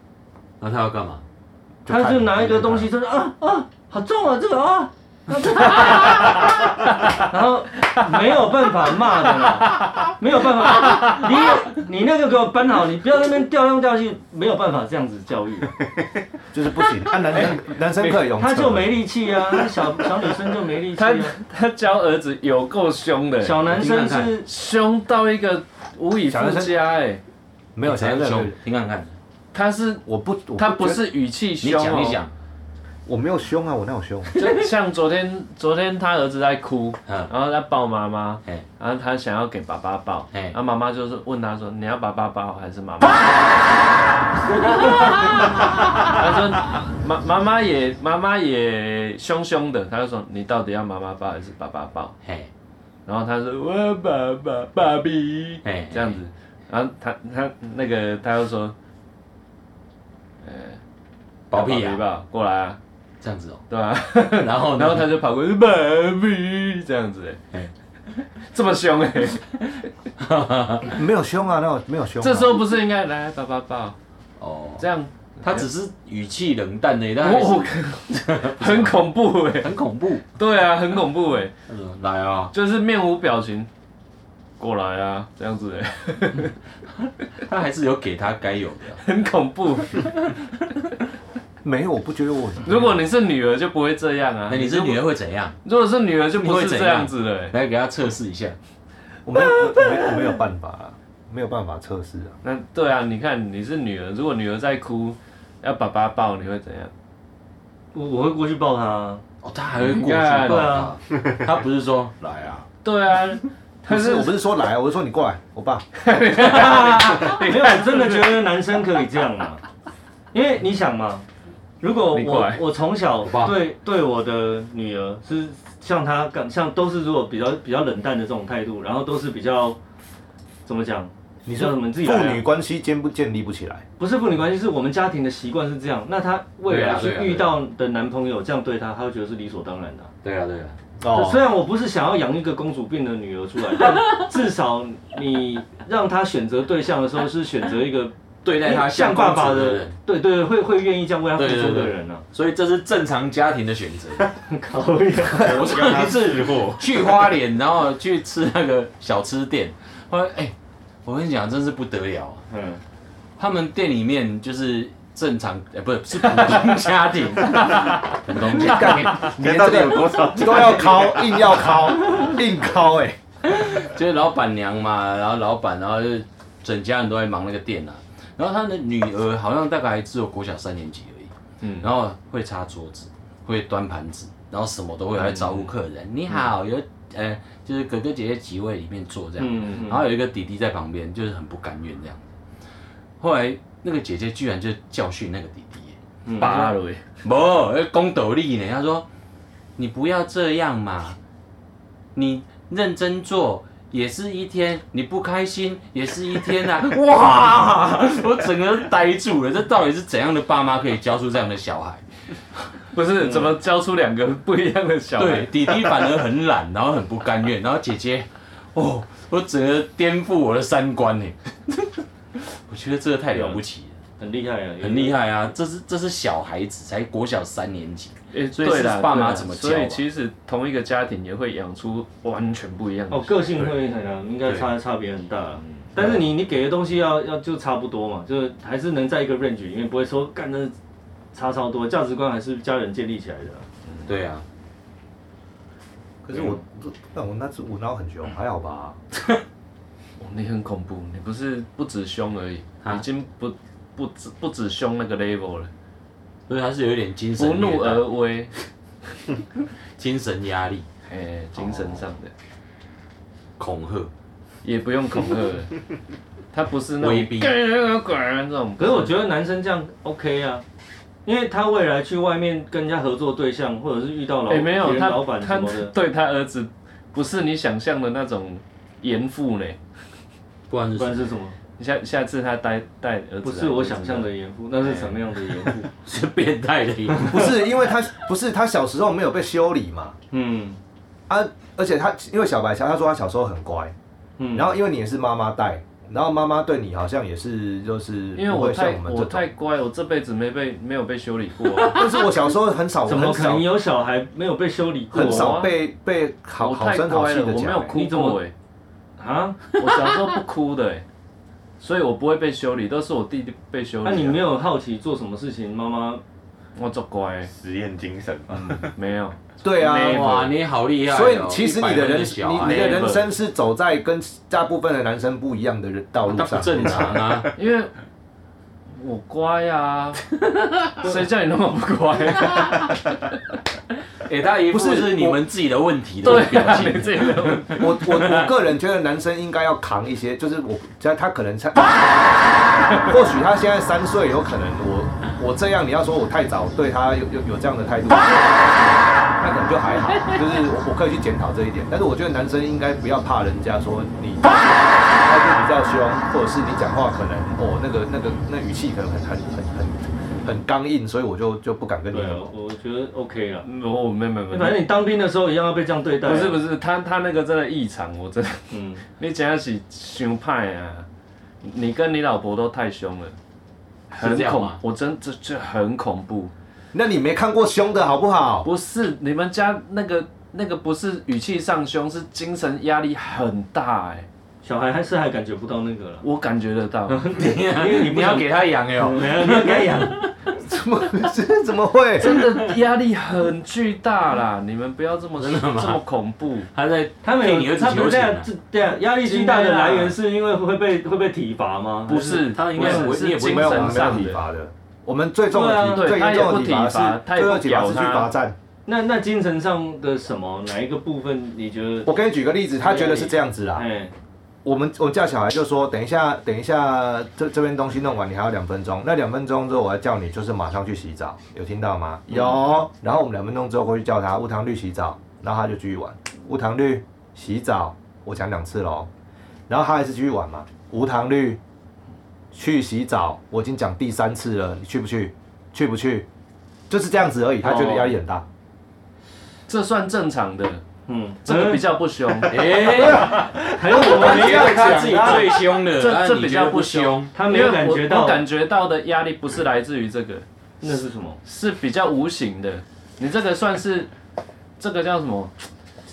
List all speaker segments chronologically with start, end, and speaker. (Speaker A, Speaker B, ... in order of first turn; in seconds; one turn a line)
Speaker A: 0.6-1.2
Speaker B: 1.9-2.9
Speaker C: 1.9-6.6
Speaker C: 7.2-15.8
Speaker D: 10.9-11.2
Speaker B: 16.5-19.0
Speaker C: 18.0-21.4
Speaker D: 21.0-23.8
Speaker C: 23.4-24.5
Speaker A: 23.7-24.4
Speaker D: 24.4-27.2
Speaker B: 26.3-26.8
Speaker B: 27.8-28.6
Speaker A: 27.8-29.1
Speaker D: 29.5-30.0
Speaker B: 30.1-31.1
Speaker D: 30.6-32.2
Speaker A: 31.6-32.3
Speaker B: 33.1-34.3
Speaker D: 34.4-43.6
Speaker A: 37.1-37.3
Speaker A: 44.8-45.5
Speaker D: 46.1-52.1
Speaker D: 53.1-58.8
Speaker A: 55.6-56.2
Speaker D: 60.4-60.8
Speaker A: 61.5-62.0
Speaker D: 61.5-62.8
Speaker A: 63.2-63.6
Speaker D: 63.7-67.4
Speaker A: 64.3-65.1
Speaker D: 68.4-69.6
Speaker A: 70.2-71.0
Speaker B: 70.9-72.6
Speaker D: 72.2-74.0
Speaker A: 74.4-74.9
Speaker D: 74.8-75.7
Speaker A: 75.4-80.2
Speaker D: 77.2-79.7
Speaker D: 80.4-81.5
Speaker A: 81.7-82.5
Speaker D: 82.5-83.7
Speaker D: 84.6-86.5
Speaker A: 87.4-89.0
Speaker D: 89.0-90.4
Speaker B: 91.6-93.0
Speaker D: 92.6-95.0
Speaker A: 94.5-95.6
Speaker D: 95.6-97.5
Speaker A: 96.3-98.6
Speaker B: 99.3-102.4
Speaker D: 102.4-106.9
Speaker C: 107.9-109.2
Speaker A: 109.4-112.7
Speaker D: 109.8-110.9
Speaker C: 110.4-110.9
Speaker D: 112.8-114.4
Speaker B: 113.9-115.8
Speaker D: 116.0-118.5
Speaker C: 116.4-119.6
Speaker C: 120.3-121.3
Speaker C: 121.8-129.8
Speaker D: 122.1-122.6
Speaker A: 123.2-123.6
Speaker C: 130.7-132.4
Speaker B: 131.5-133.8
Speaker C: 134.0-140.1
Speaker A: 136.7-137.6
Speaker A: 140.2-140.8
Speaker B: 141.0-141.4
Speaker C: 141.1-152.2
Speaker A: 148.4-150.0
Speaker A: 151.4-154.3
Speaker C: 154.5-155.6
Speaker E: 155.3-157.3
Speaker A: 155.4-160.5
Speaker A: 161.1-162.4
Speaker C: 162.5-162.8
Speaker A: 163.4-169.8
Speaker D: 166.2-166.8
Speaker D: 167.4-169.2
Speaker B: 168.6-173.2
Speaker E: 169.2-171.7
Speaker A: 173.4-192.2
Speaker C: 189.4-190.0
Speaker A: 193.2-199.1
Speaker C: 196.3-196.6
Speaker D: 196.4-197.0
Speaker A: 199.8-201.2
Speaker A: 202.2-212.1
Speaker D: 212.9-215.7
Speaker C: 213.2-213.5
Speaker A: 215.2-221.4
Speaker A: 222.4-224.0
Speaker C: 223.3-223.6
Speaker C: 224.2-225.2
Speaker A: 224.8-230.0
Speaker D: 228.3-233.7
Speaker C: 233.1-240.8
Speaker A: 236.0-236.2
Speaker C: 241.3-243.7
Speaker A: 244.1-244.4
Speaker B: 246.2-249.0
Speaker C: 246.3-246.6
Speaker D: 250.2-255.7
Speaker A: 256.5-258.1
Speaker D: 257.4-258.5
Speaker A: 260.0-260.9
Speaker D: 261.1-262.3
Speaker A: 261.6-262.0
Speaker A: 263.6-264.1
Speaker D: 264.6-265.8
Speaker D: 266.5-269.2
Speaker A: 267.0-267.5
Speaker C: 268.8-270.6
Speaker C: 271.2-275.9
Speaker D: 274.5-279.8
Speaker A: 280.7-281.3
Speaker C: 281.0-281.6
Speaker D: 281.8-284.3
Speaker C: 283.4-285.9
Speaker D: 284.8-285.2
Speaker A: 286.1-287.5
Speaker B: 287.2-290.2
Speaker C: 290.3-290.8
Speaker B: 291.3-293.9
Speaker C: 294.4-294.7
Speaker B: 294.5-299.5
Speaker D: 298.4-302.1
Speaker B: 301.9-303.7
Speaker C: 303.1-305.6
Speaker D: 305.1-305.7
Speaker B: 305.1-308.0
Speaker D: 306.6-308.5
Speaker C: 307.9-308.4
Speaker C: 309.2-309.6
Speaker D: 309.8-311.0
Speaker A: 309.8-310.1
Speaker D: 311.8-314.4
Speaker C: 314.0-316.2
Speaker D: 316.8-317.5
Speaker E: 317.5-319.0
Speaker D: 318.7-320.5
Speaker B: 319.6-320.5
Speaker A: 319.9-323.0
Speaker B: 321.1-327.4
Speaker D: 322.6-323.3
Speaker A: 326.3-327.5
Speaker D: 327.5-327.9
Speaker D: 329.0-330.3
Speaker D: 331.0-333.3
Speaker A: 334.3-338.5
Speaker B: 334.7-335.4
Speaker D: 336.2-338.0
Speaker B: 337.8-362.5
Speaker C: 362.1-363.7
Speaker D: 363.6-364.9
Speaker C: 364.5-366.6
Speaker D: 366.2-371.1
Speaker C: 368.7-369.0
Speaker D: 371.6-373.4
Speaker D: 374.1-376.5
Speaker A: 374.2-374.8
Speaker B: 376.9-378.7
Speaker D: 378.6-384.3
Speaker C: 384.6-386.3
Speaker D: 386.2-387.3
Speaker C: 387.1-390.3
Speaker A: 387.3-390.3
Speaker B: 390.6-392.4
Speaker D: 392.2-396.7
Speaker A: 392.3-392.7
Speaker A: 395.4-396.0
Speaker A: 396.7-398.5
Speaker C: 397.2-403.1
Speaker D: 399.2-400.2
Speaker D: 402.1-404.4
Speaker A: 402.2-404.3
Speaker B: 403.4-408.6
Speaker C: 405.5-406.3
Speaker D: 405.9-408.3
Speaker C: 408.9-412.1
Speaker B: 412.1-413.9
Speaker C: 412.8-414.1
Speaker B: 414.6-429.1
Speaker B: 429.7-431.6
Speaker B: 432.5-436.3
Speaker B: 436.9-438.4
Speaker C: 437.6-438.1
Speaker D: 439.7-440.8
Speaker C: 441.1-442.4
Speaker D: 441.4-443.2
Speaker A: 442.5-447.3
Speaker C: 443.1-445.3
Speaker B: 443.1-445.5
Speaker D: 445.8-450.4
Speaker C: 447.3-448.4
Speaker C: 450.8-451.4
Speaker D: 451.4-454.1
Speaker D: 454.8-455.5